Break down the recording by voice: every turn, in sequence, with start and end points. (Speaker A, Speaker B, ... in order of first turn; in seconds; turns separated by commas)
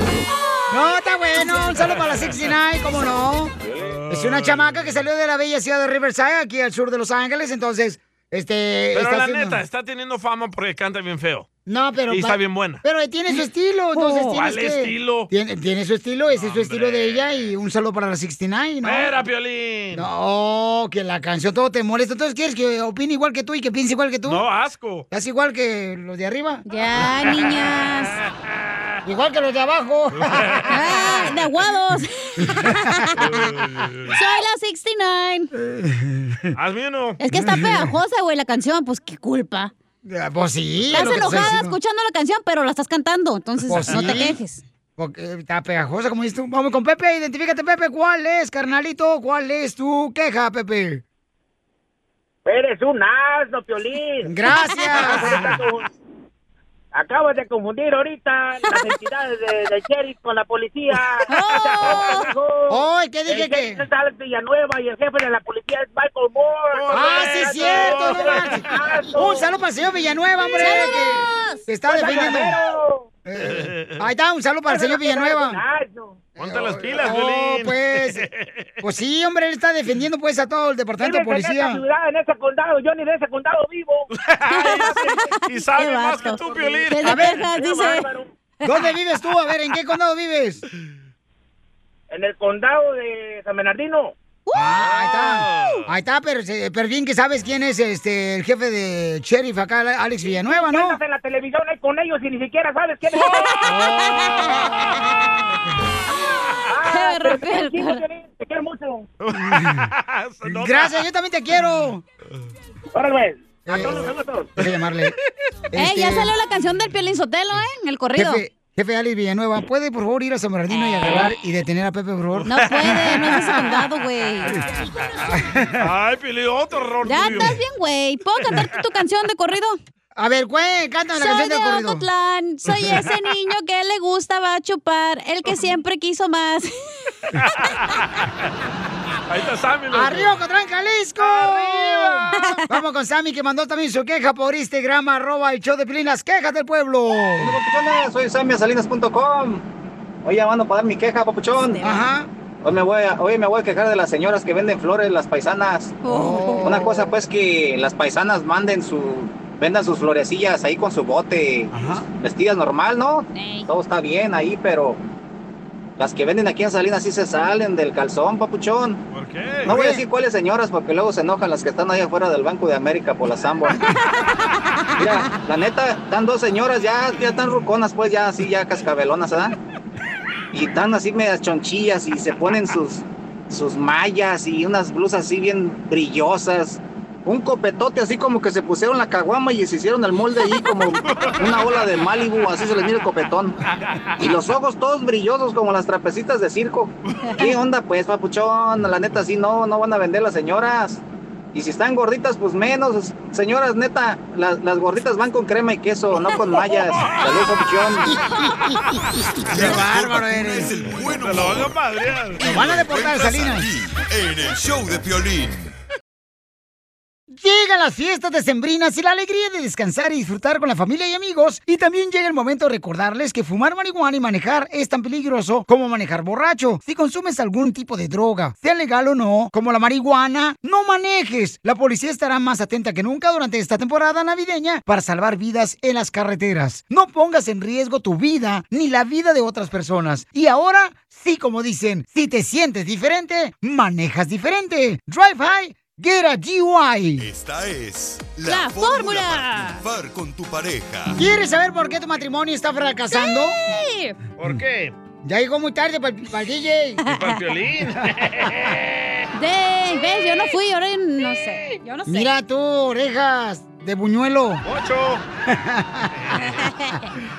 Speaker A: 0.7-3.5, Speaker B: 3.8-5.0, Speaker A: 4.1-9.6, Speaker B: 8.9-11.5, Speaker A: 11.7-19.1, Speaker B: 12.1-12.8, Speaker C: 14.0-14.3, Speaker B: 14.2-15.3, Speaker B: 16.3-17.5, Speaker B: 18.8-20.1, Speaker A: 19.9-24.4, Speaker B: 24.3-25.1, Speaker A: 25.1-26.6, Speaker C: 26.7-28.2, Speaker A: 29.1-31.2, Speaker B: 30.2-30.7, Speaker C: 30.7-33.4, Speaker A: 32.4-33.2, Speaker B: 33.2-34.2, Speaker C: 34.1-35.5, Speaker A: 35.5-36.5, Speaker B: 36.5-37.2, Speaker C: 37.2-39.7, Speaker A: 37.3-38.0, Speaker A: 40.0-41.8, Speaker C: 40.9-44.6, Speaker B: 40.9-41.4, Speaker A: 43.7-44.4, Speaker B: 43.9-44.1, Speaker A: 45.0-51.0, Speaker D: 52.5-54.3, Speaker A: 54.2-55.5, Speaker C: 54.6-54.8, Speaker D: 55.1-55.9, Speaker D: 56.9-69.5, Speaker C: 61.3-62.3, Speaker A: 62.7-63.9, Speaker B: 66.7-68.6, Speaker A: 66.9-72.6, Speaker C: 70.5-71.6, Speaker D: 71.9-73.1, Speaker A: 73.3-75.6, Speaker B: 73.4-74.0, Speaker D: 74.7-76.2, Speaker A: 76.4-78.3, Speaker B: 76.4-78.7, Speaker A: 78.8-81.8, Speaker D: 81.0-84.1, Speaker B: 84.1-87.4, Speaker C: 84.5-88.1, Speaker D: 84.7-85.2, Speaker D: 86.3-86.9, Speaker A: 87.0-87.5, Speaker D: 87.5-88.3, Speaker A: 88.6-90.6, Speaker D: 92.1-94.1, Speaker C: 94.5-94.8, Speaker A: 94.5-101.0, Speaker B: 94.8-95.8, Speaker D: 100.3-103.5, Speaker C: 103.2-105.2, Speaker A: 103.6-104.8, Speaker D: 106.7-109.1, Speaker C: 106.8-108.0, Speaker B: 109.2-111.0, Speaker A: 109.3-109.9, Speaker A: 110.4-112.0, Speaker D: 112.9-114.5, Speaker A: 113.7-115.2, Speaker A: 115.7-116.3, Speaker C: 115.8-118.4, Speaker A: 118.2-123.4, Speaker C: 120.7-121.2, Speaker B: 122.3-123.6, Speaker C: 122.5-124.6, Speaker B: 124.5-124.8, Speaker A: 125.2-125.9, Speaker B: 125.8-127.6, Speaker C: 127.0-129.8, Speaker A: 130.2-132.1, Speaker C: 131.2-136.7, Speaker B: 137.4-138.3, Speaker B: 139.3-140.4, Speaker A: 139.9-147.6, Speaker B: 141.2-142.2, Speaker C: 142.3-142.6, Speaker E: 147.4-149.6, Speaker E: 150.2-151.8, Speaker C: 151.6-152.0, Speaker A: 151.8-152.3, Speaker E: 152.6-155.9, Speaker C: 156.0-156.8, Speaker A: 156.1-157.1, Speaker E: 156.6-165.0, Speaker A: 161.7-162.0, Speaker C: 163.3-163.7, Speaker E: 166.0-169.0, Speaker B: 169.1-169.7, Speaker E: 169.7-173.8, Speaker A: 169.7-170.0, Speaker E: 175.0-179.6, Speaker E: 180.5-193.6, Speaker E: 194.2-201.0, Speaker E: 201.5-208.1, Speaker A: 208.3-208.8, Speaker A: 209.4-210.9, Speaker F: 209.5-211.8, Speaker B: 211.2-212.4, Speaker A: 212.4-213.7, Speaker F: 212.4-215.7, Speaker A: 217.3-247.3, Speaker F: 247.2-251.2, Speaker C: 248.4-249.8, Speaker A: 251.2-253.6, Speaker C: 253.1-254.2, Speaker B: 254.4-254.9, Speaker A: 255.2-257.0, Speaker C: 257.1-257.4, Speaker B: 257.1-258.9, Speaker C: 259.4-262.3, Speaker A: 262.1-264.6, Speaker B: 264.6-265.2, Speaker A: 265.5-266.2, Speaker B: 266.2-266.7, Speaker C: 266.8-267.0